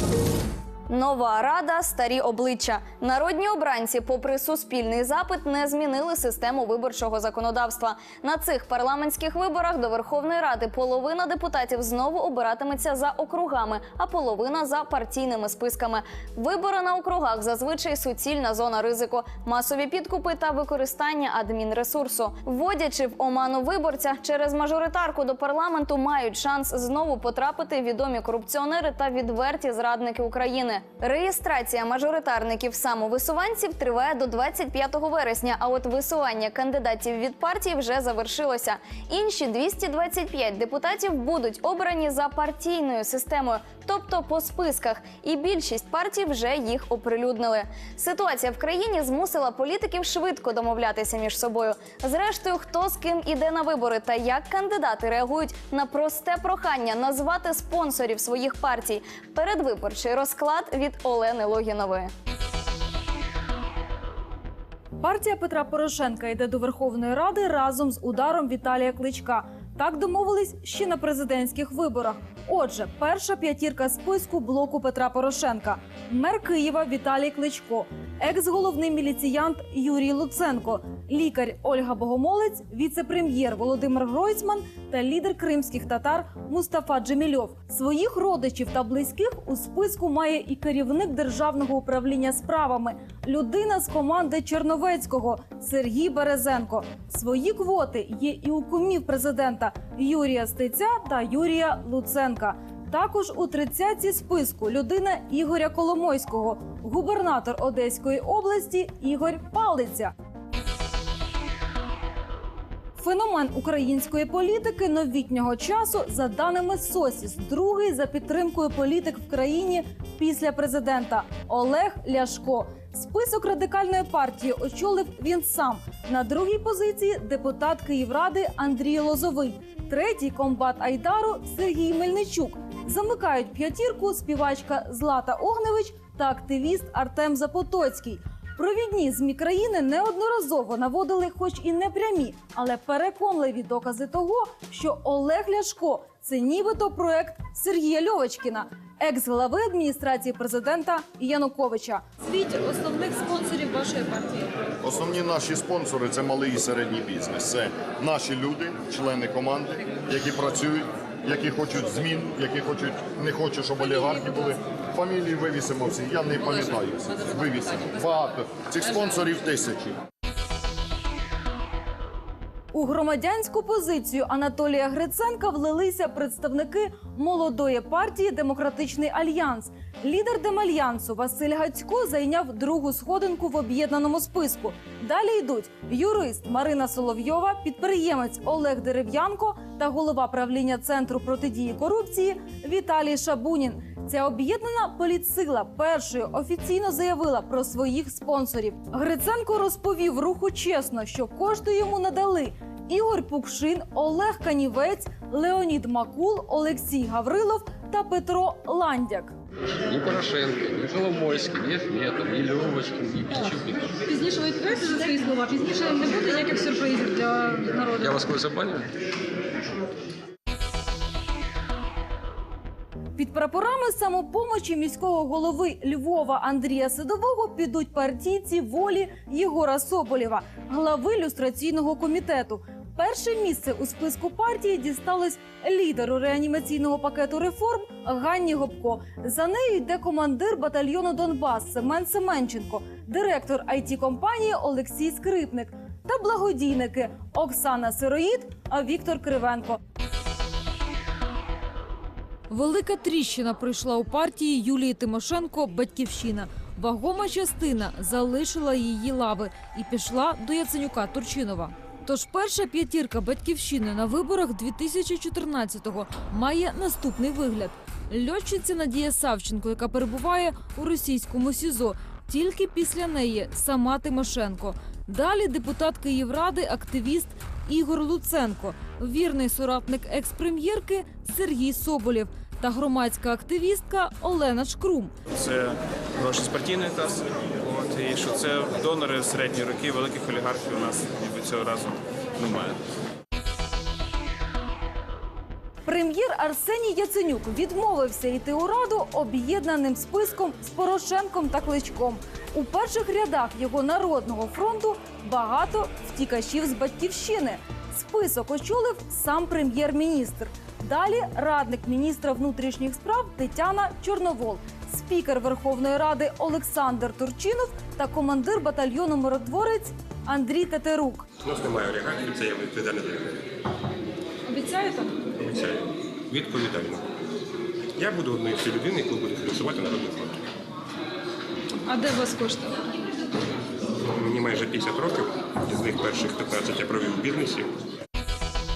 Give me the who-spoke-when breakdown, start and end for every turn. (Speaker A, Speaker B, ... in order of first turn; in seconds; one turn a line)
Speaker A: 0.9-62.1
Speaker B: 65.0-110.1
Speaker B: 113.0-154.5
Speaker C: 154.8-170.0
Speaker B: 172.7-209.3
Speaker D: 209.8-214.0
Speaker E: 214.1-218.2
Speaker D: 217.9-218.9
Speaker B: 223.2-249.8
Speaker B: 252.5-285.1
Speaker F: 285.3-292.8
Speaker B: 295.9-321.3
Speaker G: 321.4-323.4
Speaker B: 324.5-325.1
Speaker G: 325.4-327.1
Speaker G: 328.0-330.4
Speaker B: 331.9-332.7
Speaker G: 334.1-337.7